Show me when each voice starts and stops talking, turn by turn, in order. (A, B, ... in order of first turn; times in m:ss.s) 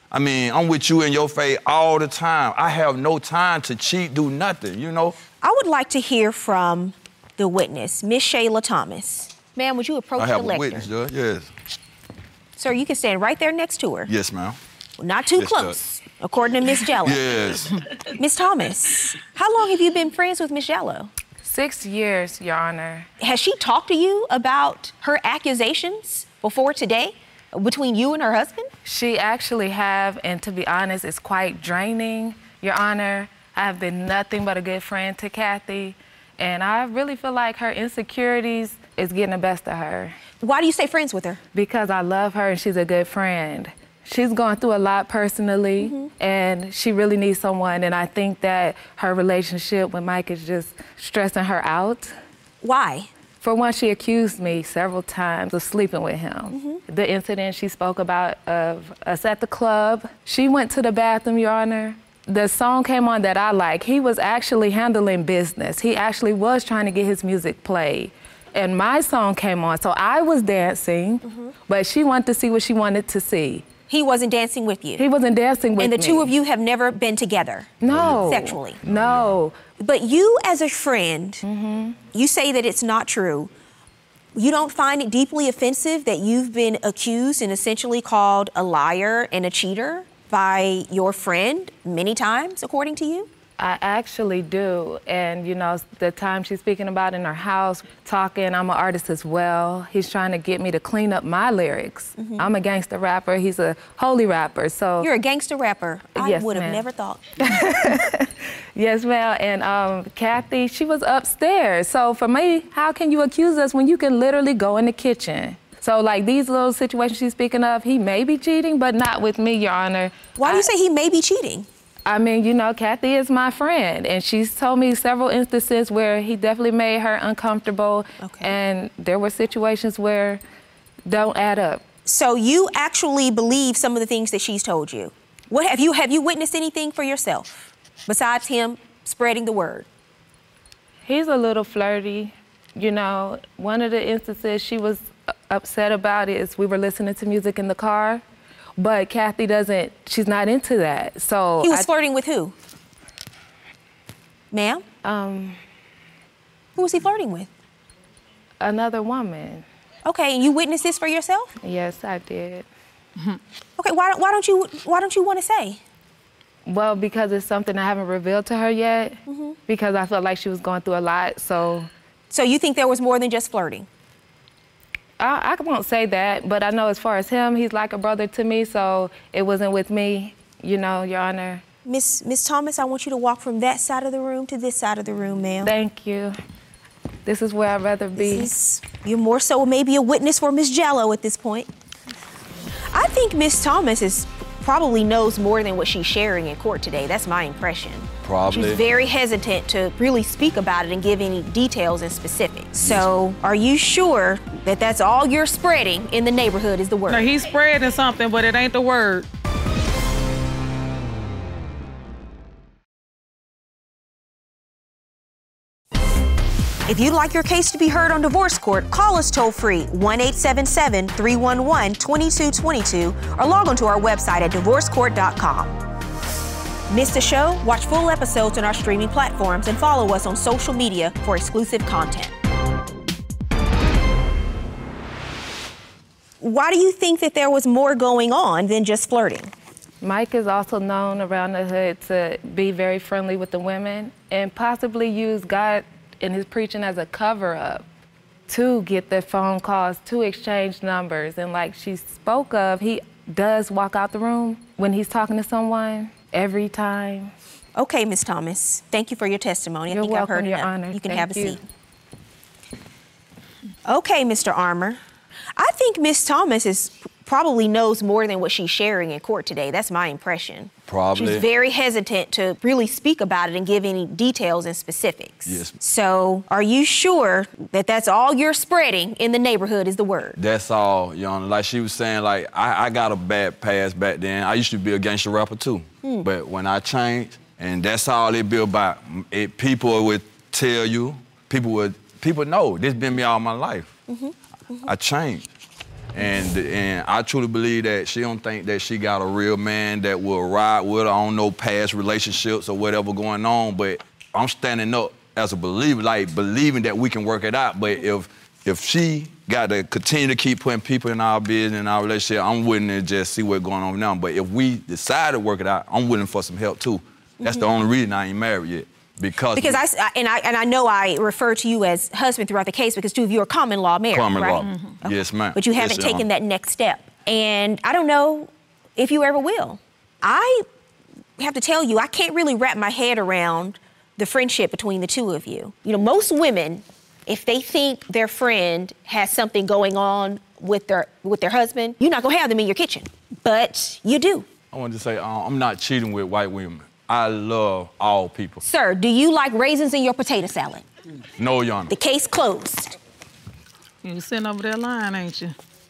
0:00.1-0:05.2 A
0:05.4-0:10.9 B
0:10.2-0:11.5 A
0:12.6-0:14.1 B
0:14.1-0:14.6 A
0:15.0-0:17.2 B
0:15.3-0:15.8 A
0:17.0-0:17.8 A
0:18.2-0:21.1 B
0:21.4-0:23.1 C
0:23.2-0:28.7 B
0:28.8-0:40.1 C
0:40.4-0:41.4 B
0:41.5-0:52.1 C
0:45.8-0:46.1 B
0:52.6-0:53.1 B
0:53.4-1:13.6 C
0:56.5-0:56.8 B
1:13.9-1:15.0 B
1:15.0-1:16.3 C
1:15.8-1:17.7 B
1:17.8-1:19.6 C
1:17.8-1:19.4 A
1:18.2-1:18.8 B
1:19.8-1:21.4 B
1:21.4-1:22.0 C
1:22.1-1:23.5 B
1:24.3-1:33.3 B
1:33.6-1:45.1 C
1:42.2-1:42.4 B
1:45.0-1:47.2 B
1:46.2-1:46.8 C
1:47.4-2:00.7 C
2:00.4-2:01.7 B
2:02.0-2:10.4 C
2:08.2-2:08.6 B
2:11.0-2:11.8 C
2:12.0-2:19.9 B
2:21.0-2:28.2 C
2:28.8-2:31.9 C
2:31.6-2:32.5 B
2:34.5-2:34.8 B
2:35.0-2:35.6 C
2:36.8-2:37.5 B
2:38.6-2:39.6 C
2:40.0-2:41.5 B
2:41.6-2:42.7 C
2:43.8-2:45.8 B
2:46.6-2:51.9 C
2:49.3-2:49.6 B
2:52.3-2:53.9 B
2:55.2-3:01.6 C
3:01.8-3:05.7 B
3:05.6-3:06.3 C
3:07.2-3:08.5 C
3:08.2-3:11.7 B
3:12.9-3:27.3 B
3:18.2-3:18.8 A
3:22.8-3:23.1 A
3:27.1-3:29.3 D
3:36.9-3:45.8 B
3:46.9-3:52.3 B
3:56.4-3:59.5 B
4:00.0-4:07.8 C
4:08.5-4:17.3 C
4:17.8-4:21.6 B
4:19.9-4:21.6 C
4:23.8-4:25.0 B
4:25.6-4:40.4 B
4:30.9-4:31.5 A
4:35.4-4:35.7 A
4:40.4-4:53.9 A
4:54.1-4:54.9 B
4:54.8-4:55.5 A
4:56.1-5:19.8 A
5:19.5-5:30.6 B
5:24.1-5:26.3 A
5:24.6-5:25.0 D
5:31.4-5:44.5 B
5:44.7-5:48.6 A
5:48.6-5:50.8 B
5:51.4-5:51.9 A
5:51.9-5:52.9 B
5:54.0-5:55.5 D